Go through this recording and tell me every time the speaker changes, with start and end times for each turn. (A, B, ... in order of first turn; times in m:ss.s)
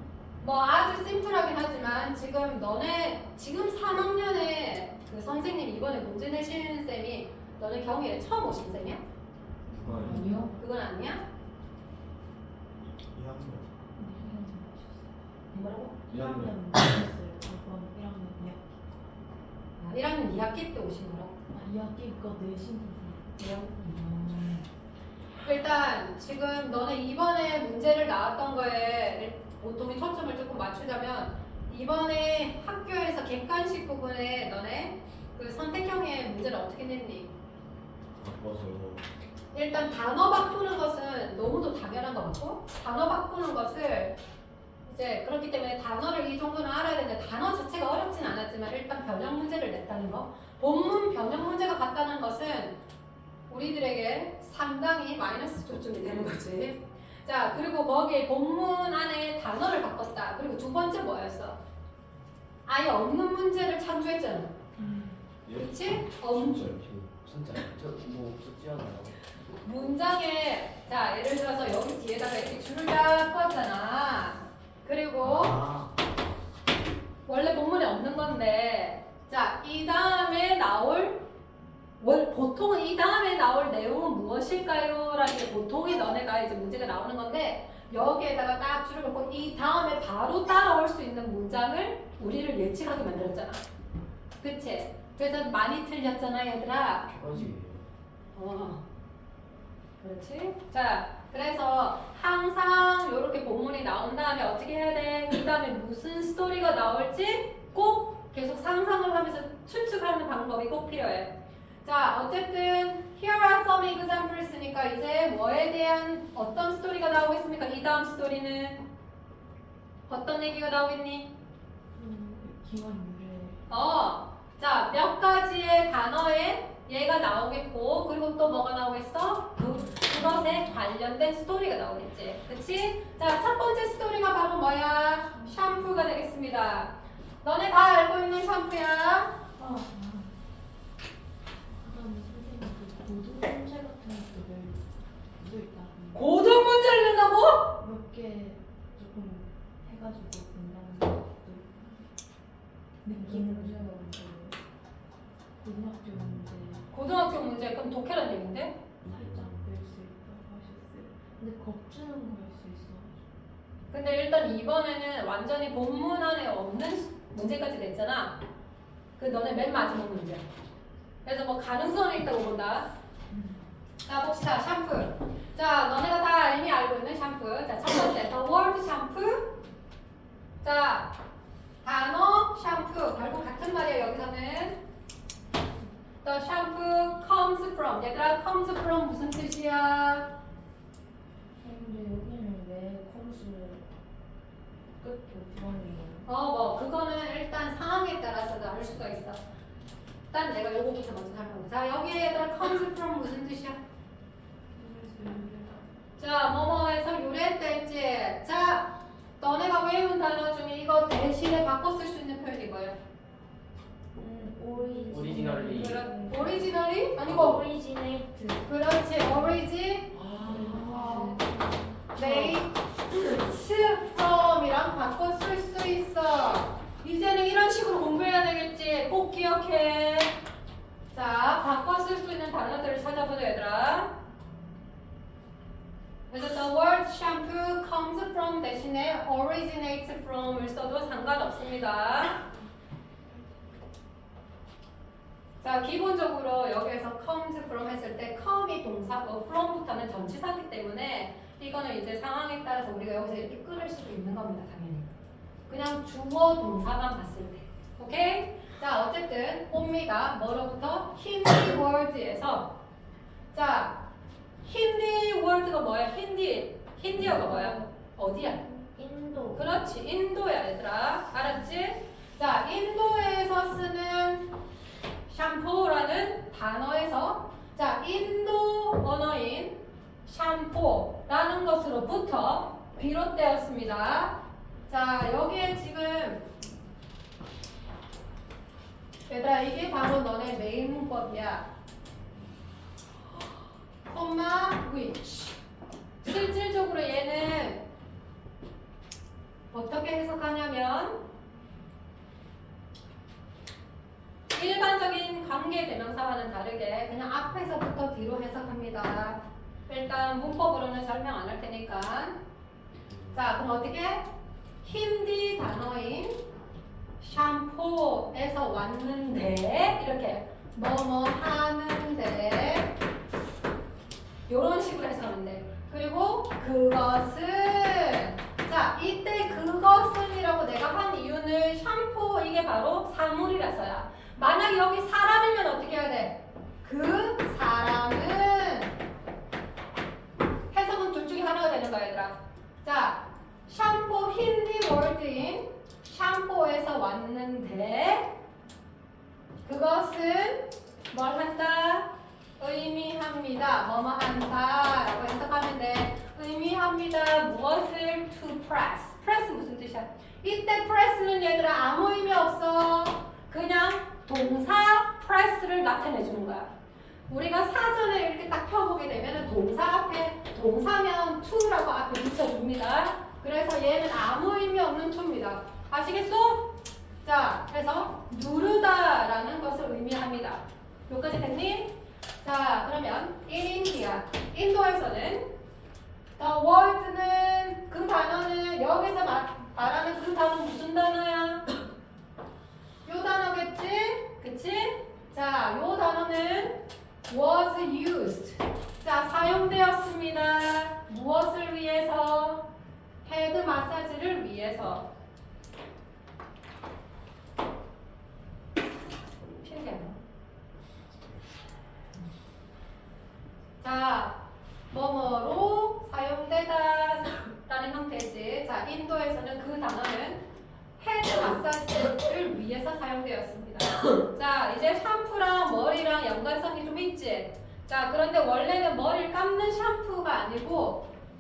0:00.4-0:09.0 A
0:09.7-0:10.4 B
0:09.9-0:10.5 C
0:10.0-0:11.2 A
0:13.1-0:13.7 B
0:14.0-0:15.2 C
0:15.5-0:16.0 A
0:16.1-0:18.9 C
0:16.1-0:16.6 B
0:19.8-0:21.4 A
0:21.5-0:23.3 C
0:23.4-0:24.6 A
0:25.4-0:37.3 A
0:38.2-0:39.0 B
0:39.5-0:44.2 A
0:44.9-0:52.8 A
0:53.5-1:01.6 A
1:02.7-1:04.6 A
1:04.8-1:05.2 C
1:05.6-1:06.8 A
1:06.2-1:09.2 B
1:09.6-1:15.6 A
1:15.2-1:15.9 B
1:17.3-1:21.2 A
1:22.0-1:33.6 A
1:34.4-1:37.1 A
1:37.1-1:37.9 B
1:38.4-1:38.8 A
1:40.0-1:58.9 A
2:00.1-2:01.3 A
2:02.0-2:03.6 C
2:03.7-2:19.4 A
2:09.6-2:10.8 C
2:15.3-2:15.8 C
2:19.6-2:20.3 C
2:21.7-2:24.8 C
2:25.4-2:26.4 C
2:26.1-2:27.7 A
2:27.8-2:32.1 C
2:33.0-2:34.6 C
2:33.2-2:33.7 A
2:35.6-2:36.9 C
2:36.9-2:38.8 A
2:39.0-2:43.2 C
2:39.1-2:39.5 B
2:43.9-2:48.4 A
2:49.2-2:50.4 A
2:51.2-2:52.9 A
2:53.3-2:53.6 C
2:54.1-2:59.6 A
3:00.6-3:01.1 A
3:01.8-3:04.8 A
3:06.2-3:10.3 A
3:11.6-3:13.9 C
3:15.0-3:16.3 C
3:16.3-3:19.4 A
3:20.3-3:23.8 A
3:24.8-3:25.8 C
3:26.2-3:33.0 A
3:34.1-3:38.7 C
3:35.1-3:36.0 B
3:35.7-3:37.6 A
3:38.7-3:41.4 A
3:39.2-3:39.6 C
3:40.2-3:42.6 C
3:42.1-3:50.3 A
3:51.1-3:54.1 A
3:56.3-4:02.4 A
4:05.6-4:15.1 A
4:15.7-4:22.7 A
4:23.5-4:24.0 A
4:24.6-4:28.6 A
4:27.3-4:27.9 C
4:28.4-4:29.8 C
4:29.6-4:34.5 A
4:35.3-4:44.4 A
4:44.9-4:46.5 A
4:49.3-4:51.7 A
4:54.0-4:55.6 A
4:56.2-4:57.8 A
4:59.7-5:01.2 A
5:04.5-5:12.4 A
5:13.1-5:13.4 B
5:13.3-5:14.3 A
5:14.8-5:16.4 A
5:17.2-5:23.0 A
5:24.5-5:38.9 A
5:40.7-5:48.3 A
5:49.6-6:06.7 A
6:07.3-6:16.7 A
6:17.2-6:25.5 A
6:26.4-6:31.7 A
6:33.0-6:42.7 A
6:43.2-6:45.1 A
6:49.5-6:50.2 A
6:53.8-6:54.4 A
6:54.9-7:00.4 A
7:01.0-7:11.1 A